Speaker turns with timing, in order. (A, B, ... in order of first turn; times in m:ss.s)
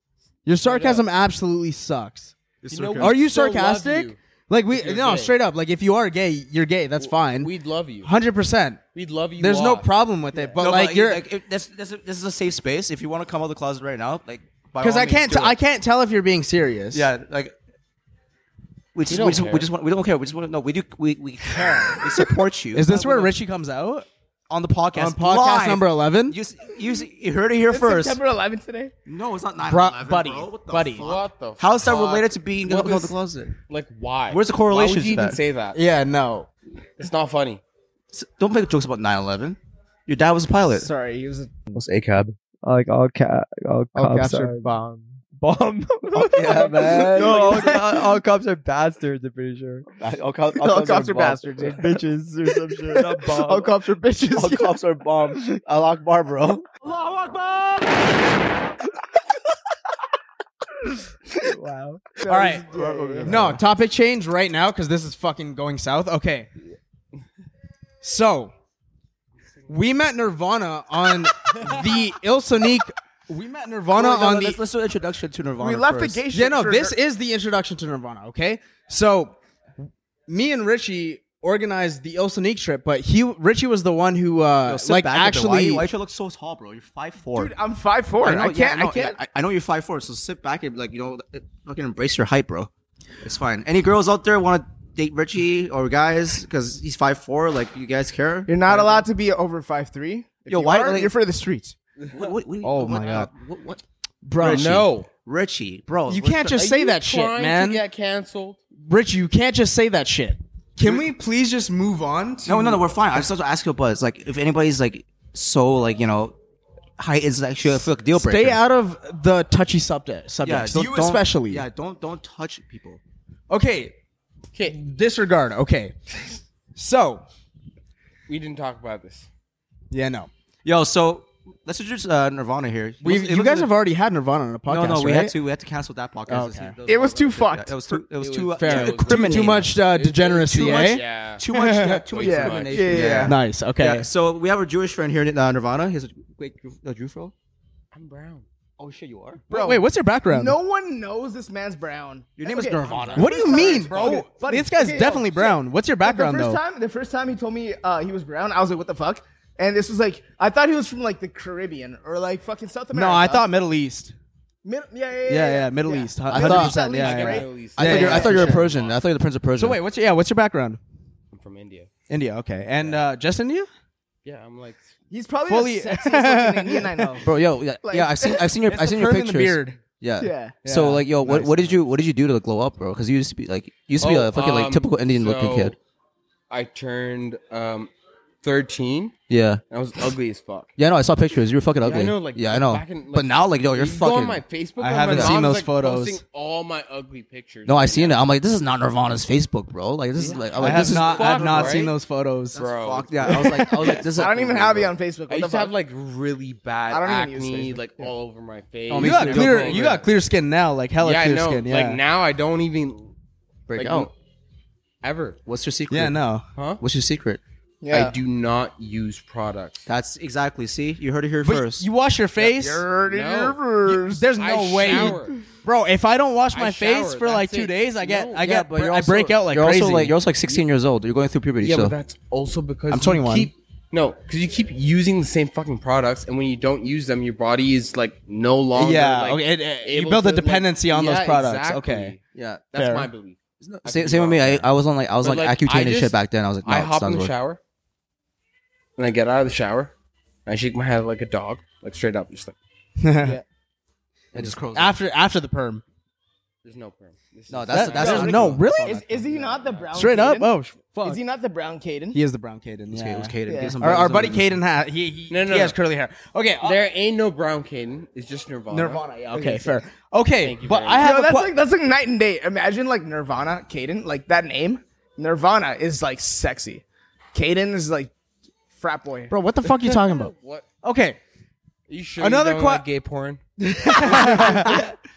0:00.4-0:02.3 A
0:00.6-0:01.0 B
0:02.6-0:03.2 C
0:02.6-0:04.2 B
0:03.0-0:07.5 A
0:04.7-0:05.3 B
0:07.0-0:08.1 B
0:08.0-0:08.8 A
0:08.9-0:09.9 B
0:09.4-0:11.2 A
0:10.6-0:15.6 C
0:14.8-0:17.1 A
0:16.9-0:17.5 C
0:18.9-0:23.3 C
0:19.1-0:19.7 B
0:22.7-0:24.1 A
0:24.5-0:28.2 C
0:24.9-0:26.4 A
0:27.7-0:28.9 D
0:29.0-0:33.5 C
0:29.6-0:31.0 A
0:31.0-0:33.1 B
0:33.7-0:35.8 B
0:34.3-0:35.4 C
0:35.7-0:36.5 A
0:37.0-0:37.6 B
0:38.1-0:40.9 C
0:40.7-0:41.6 D
0:41.7-0:42.3 C
0:42.6-0:49.9 E
0:44.0-0:44.3 D
0:46.2-0:48.2 C
0:46.8-0:47.7 D
0:50.0-0:51.5 C
0:50.6-0:52.0 D
0:51.5-0:54.0 E
0:52.9-0:54.7 D
0:54.3-0:56.6 C
1:01.4-1:03.3 E
1:02.2-1:03.6 D
1:02.3-1:02.7 A
1:03.2-1:06.5 A
1:08.0-1:08.5 A
1:09.7-1:14.6 A
1:13.9-1:16.2 C
1:15.6-1:17.0 D
1:16.3-1:19.3 A
1:20.3-1:25.8 A
1:24.6-1:27.5 C
1:27.3-1:29.2 D
1:28.2-1:32.7 C
1:33.2-1:39.0 C
1:38.5-1:41.7 D
1:40.5-1:41.2 C
1:42.1-1:43.8 C
1:42.6-1:43.3 A
1:44.2-1:44.8 A
1:44.3-1:46.6 C
1:44.4-1:45.1 B
1:46.1-1:47.8 A
1:46.4-1:48.6 B
1:48.8-1:52.8 A
1:52.4-1:56.4 C
1:57.0-1:58.6 C
1:58.1-2:01.6 A
2:00.4-2:03.0 C
2:03.5-2:04.0 A
2:04.6-2:05.9 A
2:06.7-2:07.2 A
2:08.3-2:09.3 B
2:09.9-2:10.3 A
2:10.6-2:13.7 C
2:13.0-2:15.4 A
2:14.7-2:19.7 C
2:16.3-2:16.8 A
2:16.9-2:18.0 D
2:18.2-2:21.4 B
2:18.6-2:21.0 A
2:20.3-2:27.3 C
2:21.5-2:23.4 D
2:22.1-2:23.3 B
2:23.1-2:24.1 A
2:27.9-2:28.4 B
2:28.8-2:29.4 C
2:29.5-2:30.6 A
2:29.5-2:43.5 D
2:32.4-2:33.9 C
2:32.9-2:34.2 B
2:33.1-2:36.6 A
2:42.9-2:44.1 A
2:44.6-2:48.6 D
2:45.3-2:48.6 A
2:46.3-2:46.8 C
2:46.4-2:49.0 B
2:47.8-2:49.8 C
2:49.6-2:50.8 A
2:51.3-2:51.9 B
2:52.1-2:53.7 A
2:52.8-2:53.0 B
2:54.2-2:54.9 B
2:55.1-2:57.3 D
2:55.5-2:57.2 A
2:57.2-3:05.8 C
2:57.8-2:58.5 D
2:58.6-2:59.8 A
3:00.2-3:00.6 D
3:00.6-3:01.7 A
3:04.0-3:05.8 B
3:06.5-3:07.9 B
3:08.4-3:09.1 B
3:09.3-3:09.6 C
3:09.7-3:10.7 B
3:10.8-3:14.4 C
3:11.8-3:18.2 B
3:14.8-3:16.2 A
3:15.1-3:15.4 C
3:17.6-3:21.8 C
3:20.2-3:21.9 B
3:20.6-3:22.6 A
3:22.5-3:23.2 B
3:22.5-3:24.9 C
3:23.3-3:23.9 A
3:23.9-3:25.7 D
3:25.3-3:30.1 B
3:26.9-3:28.1 D
3:28.9-3:30.0 C
3:28.9-3:32.0 A
3:31.0-3:33.1 B
3:33.7-3:34.1 C
3:33.7-3:34.1 B
3:35.0-3:35.4 B
3:35.4-3:36.2 C
3:35.9-3:36.4 A
3:36.6-3:36.8 B
3:36.8-3:37.4 C
3:37.8-3:38.2 D
3:37.9-3:39.9 B
3:39.8-3:41.8 C
3:41.4-3:42.8 A
3:42.4-3:44.3 D
3:43.0-3:43.6 B
3:43.8-3:50.2 A
3:44.4-3:45.4 B
3:46.5-3:48.4 B
3:48.4-3:51.9 C
3:51.6-4:02.2 B
3:52.9-3:53.5 A
3:58.8-4:02.2 A
4:02.3-4:02.6 C
4:02.7-4:04.7 B
4:02.8-4:03.1 A
4:03.6-4:07.3 C
4:05.2-4:07.6 B
4:09.0-4:09.9 B
4:10.4-4:12.6 B
4:13.0-4:13.4 A
4:14.3-4:15.0 C
4:14.4-4:15.8 A
4:16.6-4:19.9 B
4:17.5-4:19.3 C
4:17.7-4:19.0 A
4:18.0-4:22.2 D
4:19.9-4:21.2 A
4:22.1-4:26.8 A
4:22.9-4:24.6 C
4:23.5-4:23.8 D
4:25.3-4:25.8 B
4:26.6-4:29.0 B
4:28.7-4:31.5 A
4:29.2-4:29.8 D
4:30.4-4:31.1 B
4:31.0-4:36.8 D
4:37.3-4:38.1 D
4:38.8-4:39.3 D
4:39.3-4:41.2 A
4:39.9-4:40.6 B
4:41.9-4:43.4 B
4:42.2-4:42.8 A
4:43.6-4:44.9 A
4:43.8-4:44.7 D